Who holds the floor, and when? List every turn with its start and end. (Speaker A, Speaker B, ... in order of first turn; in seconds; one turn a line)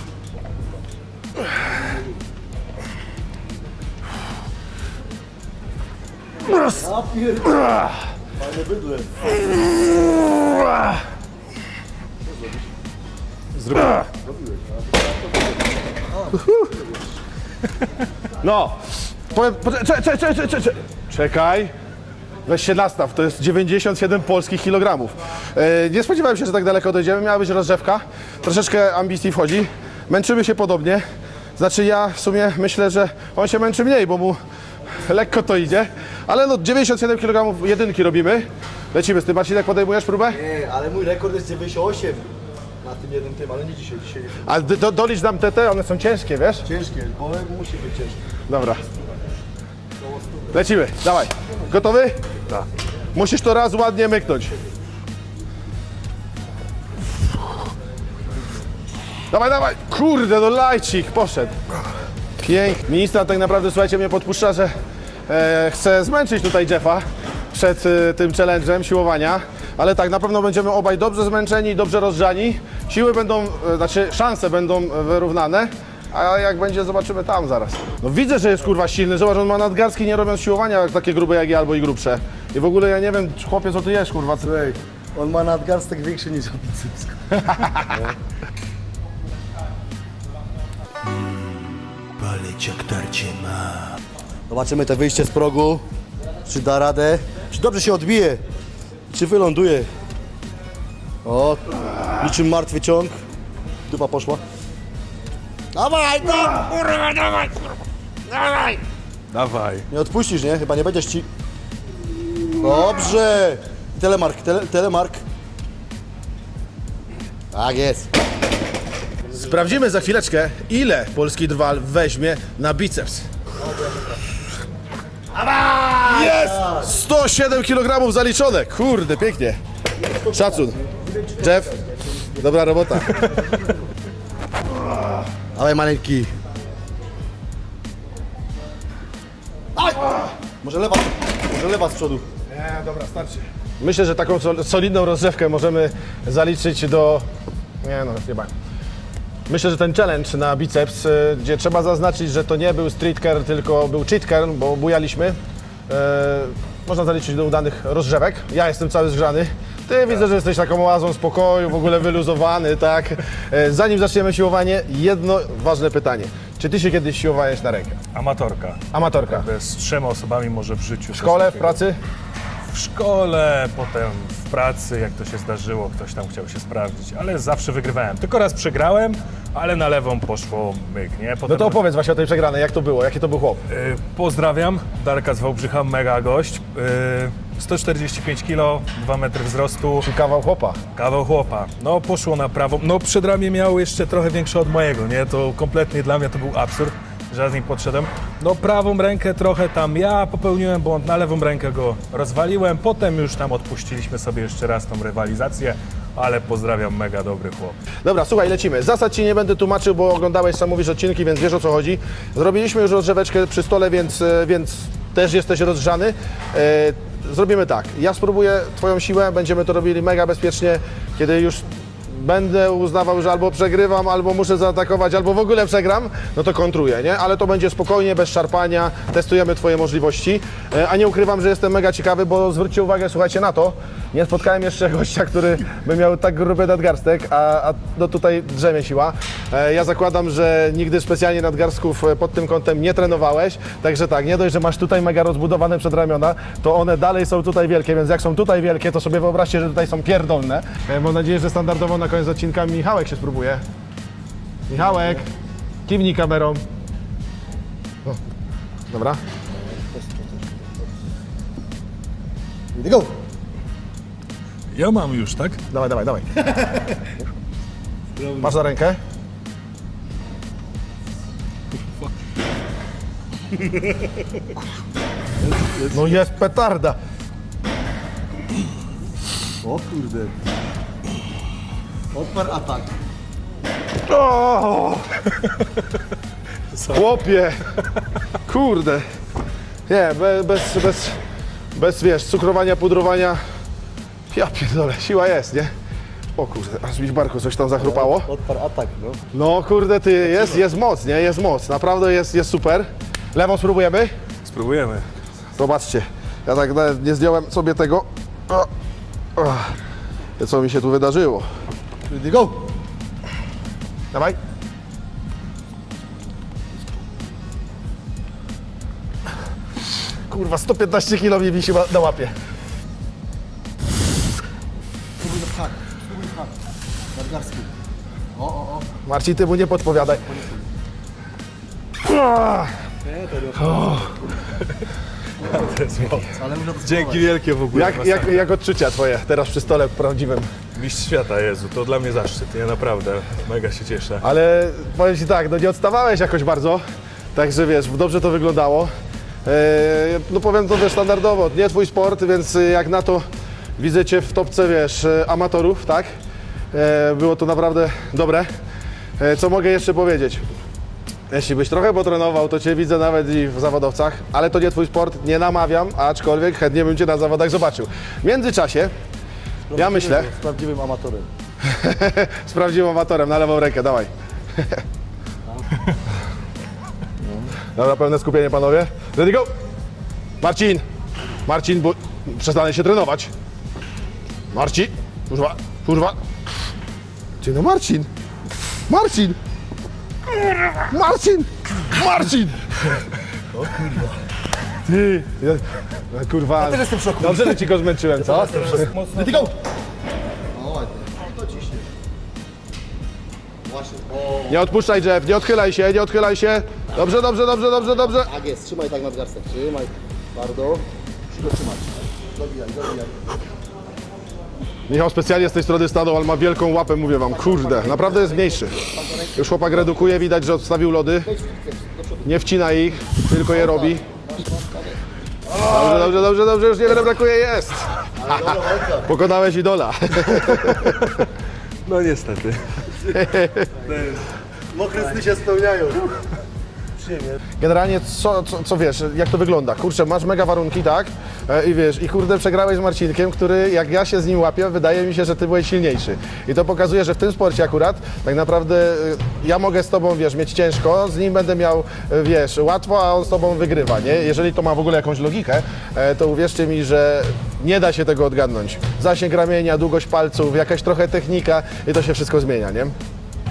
Speaker A: 1.7-2.1
Speaker A: 6.5-9.4
Speaker A: 12.2-12.7
Speaker B: 13.6-14.0
Speaker C: 13.7-14.0
Speaker A: 14.1-17.1
Speaker C: 18.4-21.7
Speaker C: 22.4-31.0
Speaker C: 31.6-34.4
Speaker C: 34.9-40.4
Speaker A: 40.3-44.5
Speaker C: 44.4-46.6
Speaker A: 46.6-48.2
Speaker C: 48.5-48.8
Speaker A: 50.0-50.6
Speaker C: 50.5-52.2
Speaker C: 53.1-54.5
Speaker C: 59.3-61.6
Speaker C: 62.4-64.7
Speaker C: 65.3-84.5
Speaker A: 84.4-87.3
Speaker C: 87.5-87.7
Speaker D: 91.0-94.0
Speaker A: 94.5-95.8
Speaker A: 96.4-98.4
Speaker A: 99.1-99.9
Speaker A: 101.2-103.2
Speaker A: 103.9-104.4
Speaker A: 105.7-107.5
Speaker A: 108.3-108.8
Speaker B: 109.3-109.8
Speaker A: 109.9-111.3
Speaker A: 112.6-115.2
Speaker A: 117.5-118.1
Speaker C: 119.3-123.3
Speaker A: 123.6-124.2
Speaker A: 125.3-126.9
Speaker C: 126.0-129.6
Speaker A: 130.0-132.4
Speaker C: 130.3-130.8
Speaker C: 131.4-131.7
Speaker C: 132.3-133.6
Speaker A: 135.5-136.3
Speaker A: 139.8-142.2
Speaker C: 142.5-147.2
Speaker C: 147.8-148.5
Speaker C: 149.5-155.4
Speaker C: 155.9-168.0
Speaker B: 168.1-171.8
Speaker C: 168.9-169.5
Speaker C: 171.1-172.0
Speaker B: 172.7-181.8
Speaker C: 181.5-183.6
Speaker B: 183.7-190.1
Speaker C: 190.0-190.8
Speaker B: 190.9-207.8
Speaker C: 208.0-253.6
Speaker C: 254.7-255.2
Speaker C: 255.8-256.6
Speaker C: 258.9-259.2
Speaker A: 259.7-260.5
Speaker A: 262.7-263.1
Speaker B: 264.7-265.6
Speaker C: 265.7-266.3
Speaker A: 266.5-267.0
Speaker A: 268.1-268.6
Speaker C: 268.4-269.0
Speaker A: 275.4-276.2
Speaker C: 275.9-277.0
Speaker A: 279.6-280.3
Speaker A: 282.1-282.9
Speaker C: 284.1-285.2
Speaker C: 286.9-287.7
Speaker C: 288.4-289.0
Speaker C: 289.9-291.2
Speaker C: 291.7-293.4
Speaker C: 294.3-295.7
Speaker C: 296.4-298.3
Speaker A: 297.8-299.2
Speaker C: 299.3-304.1
Speaker B: 304.4-305.1
Speaker C: 305.6-308.7
Speaker C: 309.4-309.7
Speaker C: 310.4-311.5
Speaker A: 312.1-312.7
Speaker C: 314.1-314.4
Speaker C: 320.3-322.3
Speaker A: 325.2-326.5
Speaker A: 327.1-327.7
Speaker A: 328.3-328.9
Speaker C: 329.0-330.2
Speaker A: 329.9-330.7
Speaker C: 332.0-332.7
Speaker A: 333.0-334.3
Speaker C: 333.6-334.1
Speaker B: 335.4-338.4
Speaker A: 336.3-337.3
Speaker C: 337.7-340.5
Speaker B: 340.7-344.2
Speaker C: 344.2-346.8
Speaker C: 347.3-348.9
Speaker C: 349.4-353.2
Speaker C: 353.8-356.1
Speaker C: 356.7-358.5
Speaker C: 359.2-360.4
Speaker C: 361.3-368.9
Speaker A: 369.7-371.3
Speaker C: 369.7-370.3
Speaker C: 371.6-374.8
Speaker C: 377.7-379.5
Speaker C: 380.4-380.8
Speaker C: 381.4-383.3
Speaker C: 384.5-386.2
Speaker C: 387.4-388.1
Speaker C: 388.9-389.4
Speaker C: 390.7-392.6
Speaker A: 393.5-394.2
Speaker C: 394.8-398.9
Speaker A: 396.6-397.6
Speaker A: 398.2-399.5
Speaker A: 400.5-401.9
Speaker A: 403.6-404.6
Speaker C: 404.5-408.3
Speaker A: 408.1-413.2
Speaker C: 414.9-421.3
Speaker A: 417.5-419.4
Speaker A: 421.2-422.3
Speaker C: 422.2-424.0
Speaker A: 423.6-424.9
Speaker B: 425.6-426.1
Speaker C: 425.6-431.2
Speaker A: 428.2-429.1
Speaker B: 430.7-431.2
Speaker B: 431.8-432.9
Speaker C: 433.1-433.9
Speaker A: 433.8-436.3
Speaker A: 437.0-437.4
Speaker C: 437.6-462.9